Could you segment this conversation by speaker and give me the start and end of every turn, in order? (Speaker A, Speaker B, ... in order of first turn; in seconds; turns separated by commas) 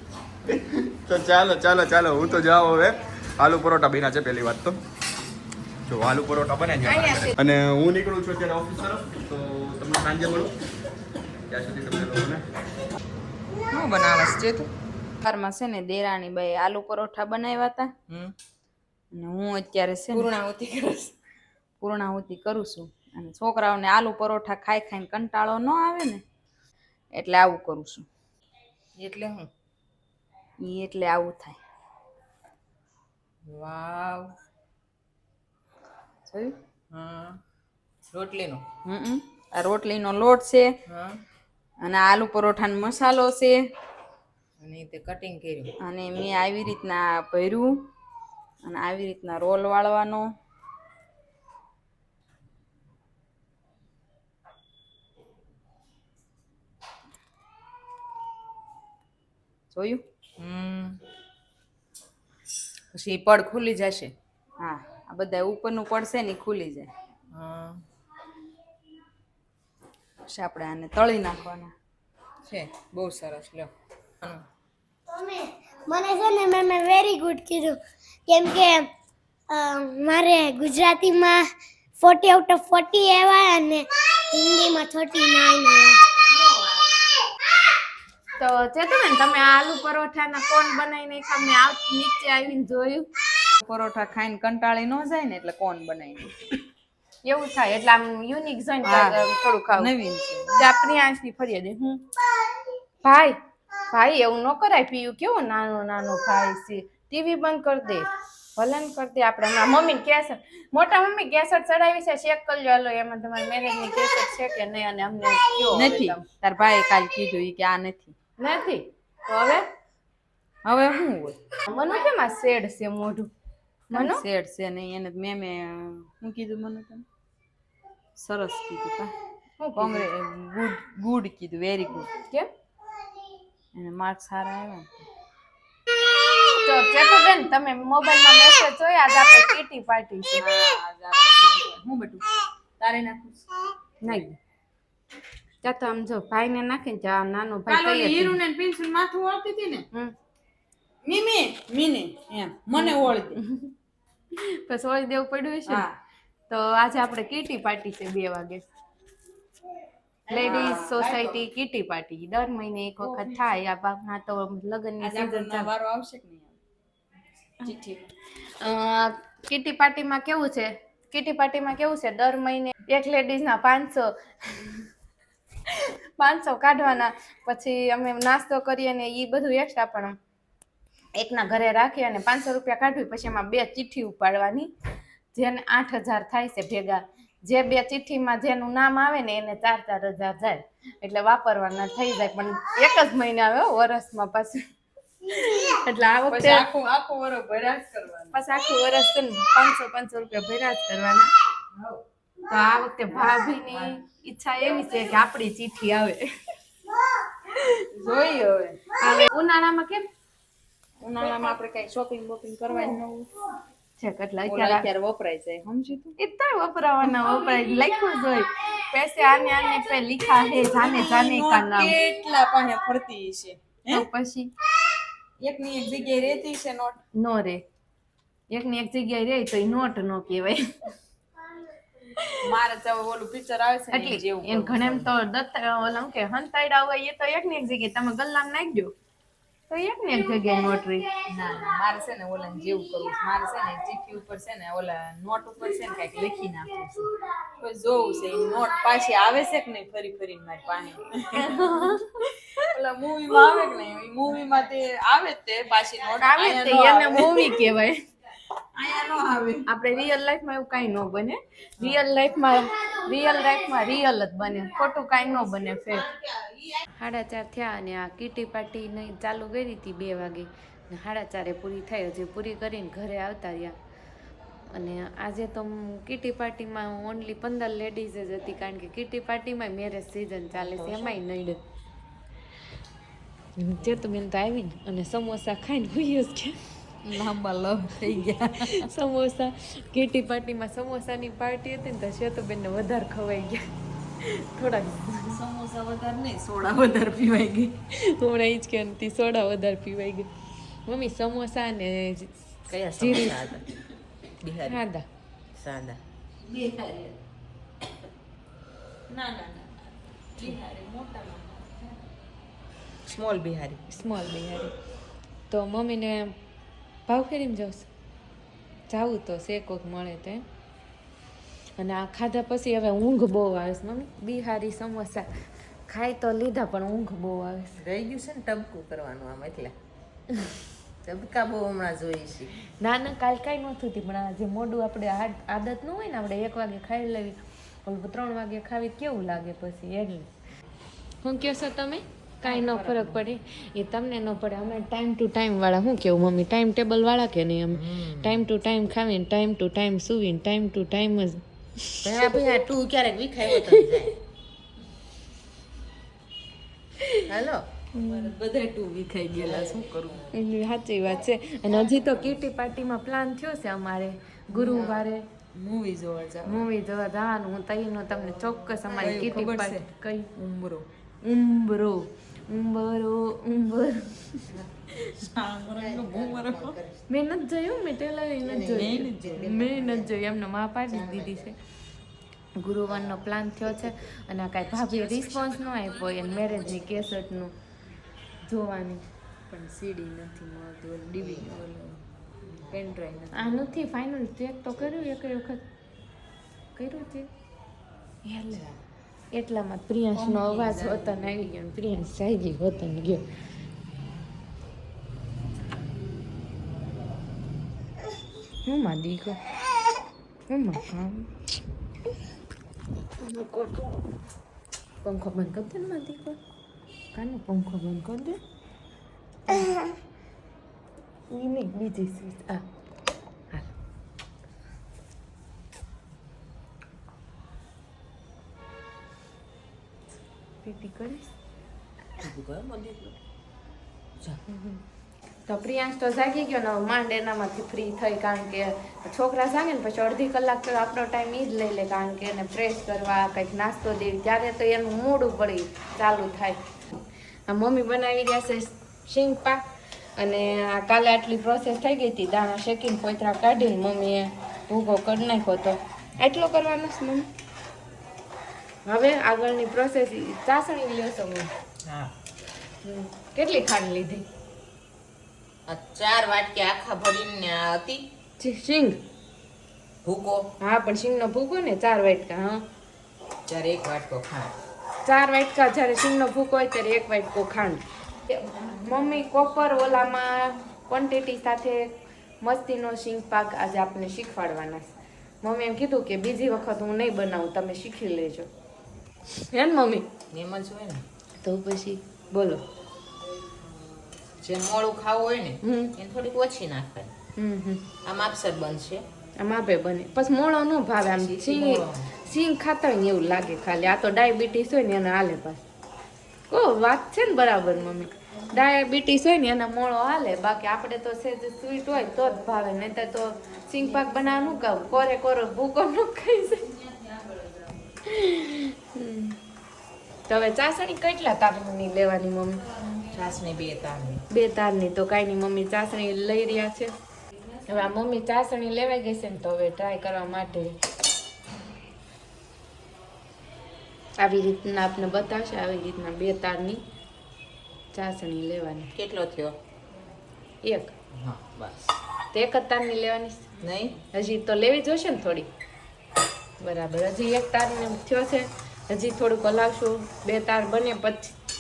Speaker A: 0.5-4.8, Speaker A: 5.9-10.5, Speaker B: 6.8-7.3, Speaker A: 11.5-12.4, Speaker C: 13.7-14.7, Speaker D: 15.2-17.9, Speaker C: 18.1-18.3, Speaker D: 19.1-20.3, Speaker C: 20.1-21.1, Speaker D: 21.8-26.2, Speaker D: 27.1-28.1, Speaker C: 29.0-29.5, Speaker D: 30.6-31.6, Speaker C: 33.4-34.3, Speaker D: 36.3-36.5, Speaker C: 36.9-37.4, Speaker C: 38.0-38.6, Speaker D: 38.8-40.8, Speaker C: 40.9-41.2, Speaker D: 41.8-43.7, Speaker C: 44.6-45.7, Speaker D: 45.8-47.8, Speaker D: 48.6-50.3, Speaker D: 59.7-60.0, Speaker C: 60.4-61.0, Speaker C: 62.9-64.1, Speaker D: 64.6-66.9, Speaker C: 67.3-67.8, Speaker D: 70.3-71.7, Speaker C: 72.4-74.4, Speaker E: 75.1-78.9, Speaker E: 79.5-81.5, Speaker E: 82.0-86.0, Speaker B: 88.4-93.1, Speaker D: 93.6-96.3, Speaker B: 97.2-99.9, Speaker D: 98.8-99.2, Speaker D: 99.8-100.6, Speaker B: 100.5-102.0, Speaker B: 103.0-103.4, Speaker B: 103.9-116.2, Speaker D: 115.7-118.1, Speaker B: 118.4-119.7, Speaker D: 120.6-121.4, Speaker B: 121.7-123.3, Speaker B: 123.9-124.2, Speaker D: 123.9-127.0, Speaker D: 128.2-129.1, Speaker B: 129.6-130.1, Speaker D: 129.8-132.1, Speaker B: 132.2-132.5, Speaker D: 133.7-135.1, Speaker B: 136.5-140.4, Speaker D: 140.4-142.3, Speaker D: 142.8-143.4, Speaker B: 144.0-144.3, Speaker B: 145.6-148.4, Speaker D: 147.7-149.8, Speaker D: 151.0-153.4, Speaker B: 152.8-153.7, Speaker B: 154.3-155.8, Speaker D: 155.7-155.9, Speaker B: 156.5-158.7, Speaker D: 160.3-161.4, Speaker B: 160.3-165.7, Speaker D: 163.0-163.4, Speaker D: 165.0-166.6, Speaker D: 167.6-168.0, Speaker B: 168.6-174.8, Speaker B: 175.7-180.2, Speaker B: 181.1-184.7, Speaker B: 185.3-194.6, Speaker B: 195.3-196.7, Speaker D: 196.3-198.3, Speaker B: 198.3-201.3, Speaker B: 202.5-206.3, Speaker D: 207.6-209.0, Speaker B: 209.0-210.1, Speaker D: 211.0-213.3, Speaker B: 214.0-214.9, Speaker D: 214.5-216.1, Speaker B: 216.2-221.9, Speaker D: 220.6-224.1, Speaker B: 223.9-224.5, Speaker D: 225.4-227.0, Speaker B: 227.1-227.6, Speaker B: 228.5-230.7, Speaker D: 232.4-235.1, Speaker B: 233.9-238.9, Speaker B: 239.7-241.1, Speaker D: 241.2-247.1, Speaker D: 247.6-252.0, Speaker B: 251.3-252.3, Speaker D: 252.6-257.6, Speaker B: 256.2-258.0, Speaker D: 258.7-259.6, Speaker B: 259.6-266.1, Speaker C: 266.0-266.8, Speaker B: 267.0-273.8, Speaker B: 274.7-281.6, Speaker C: 280.8-281.1, Speaker B: 283.6-286.6, Speaker D: 287.0-288.9, Speaker B: 288.6-293.6, Speaker B: 294.2-295.4, Speaker D: 295.3-297.8, Speaker B: 297.9-300.3, Speaker B: 300.9-302.3, Speaker C: 302.7-303.6, Speaker B: 302.9-303.6, Speaker C: 304.4-304.8, Speaker B: 304.6-305.1, Speaker C: 305.5-306.0, Speaker D: 306.5-307.1, Speaker D: 309.1-312.0, Speaker C: 313.0-313.9, Speaker B: 313.9-314.7, Speaker B: 315.5-316.4, Speaker B: 317.1-317.9, Speaker B: 318.9-320.4, Speaker B: 321.8-325.3, Speaker B: 325.9-327.8, Speaker C: 327.8-329.7, Speaker C: 331.0-332.5, Speaker B: 332.8-340.3, Speaker B: 341.2-352.5, Speaker D: 342.6-343.2, Speaker C: 347.7-348.4, Speaker C: 352.0-354.1, Speaker B: 357.0-357.3, Speaker C: 357.3-357.6, Speaker B: 357.9-358.3, Speaker D: 358.0-360.2, Speaker C: 359.4-360.2, Speaker B: 360.3-365.2, Speaker C: 364.5-365.0, Speaker D: 365.5-366.6, Speaker B: 366.4-370.3, Speaker D: 368.9-370.9, Speaker C: 369.0-369.4, Speaker B: 371.2-374.4, Speaker C: 374.5-377.0, Speaker D: 374.9-376.8, Speaker B: 377.1-381.6, Speaker C: 378.4-380.2, Speaker D: 378.7-379.2, Speaker C: 380.9-381.5, Speaker B: 382.6-387.5, Speaker C: 382.9-383.9, Speaker D: 384.8-386.7, Speaker B: 388.4-389.0, Speaker D: 389.5-392.0, Speaker C: 391.2-391.5, Speaker C: 392.5-392.9, Speaker D: 392.7-393.6, Speaker B: 393.3-395.6, Speaker C: 394.8-395.1, Speaker B: 396.8-397.3, Speaker B: 398.2-398.6, Speaker C: 398.5-398.7, Speaker B: 399.3-403.2, Speaker C: 400.1-401.4, Speaker B: 408.6-409.4, Speaker B: 410.5-411.3, Speaker B: 413.2-414.0, Speaker B: 415.0-416.4, Speaker B: 417.1-418.4, Speaker B: 419.5-419.8, Speaker B: 421.3-422.6, Speaker B: 430.6-431.3, Speaker C: 432.2-433.1, Speaker B: 434.5-434.8, Speaker B: 435.5-446.6, Speaker B: 447.5-449.6, Speaker B: 450.2-457.3, Speaker B: 458.8-461.5, Speaker C: 461.8-462.1, Speaker B: 462.8-464.2, Speaker C: 465.7-468.0, Speaker B: 468.4-469.0, Speaker C: 470.0-470.5, Speaker B: 470.6-472.6, Speaker C: 473.5-474.5, Speaker B: 475.0-488.5, Speaker B: 489.3-490.1, Speaker C: 490.3-491.0, Speaker B: 491.4-492.6, Speaker C: 494.4-497.1, Speaker B: 495.6-495.9, Speaker B: 497.4-497.8, Speaker C: 498.0-499.1, Speaker B: 499.4-505.6, Speaker C: 501.1-502.1, Speaker B: 506.5-516.7, Speaker D: 516.7-517.8, Speaker B: 518.0-519.4, Speaker B: 520.3-522.6, Speaker C: 523.1-524.2, Speaker B: 524.3-526.9, Speaker B: 527.7-530.8, Speaker B: 534.2-536.8, Speaker B: 537.9-538.9, Speaker C: 538.9-539.5, Speaker B: 540.6-540.9, Speaker C: 541.1-541.8, Speaker B: 542.3-543.5, Speaker C: 543.6-544.0, Speaker B: 544.1-545.5, Speaker B: 546.6-551.3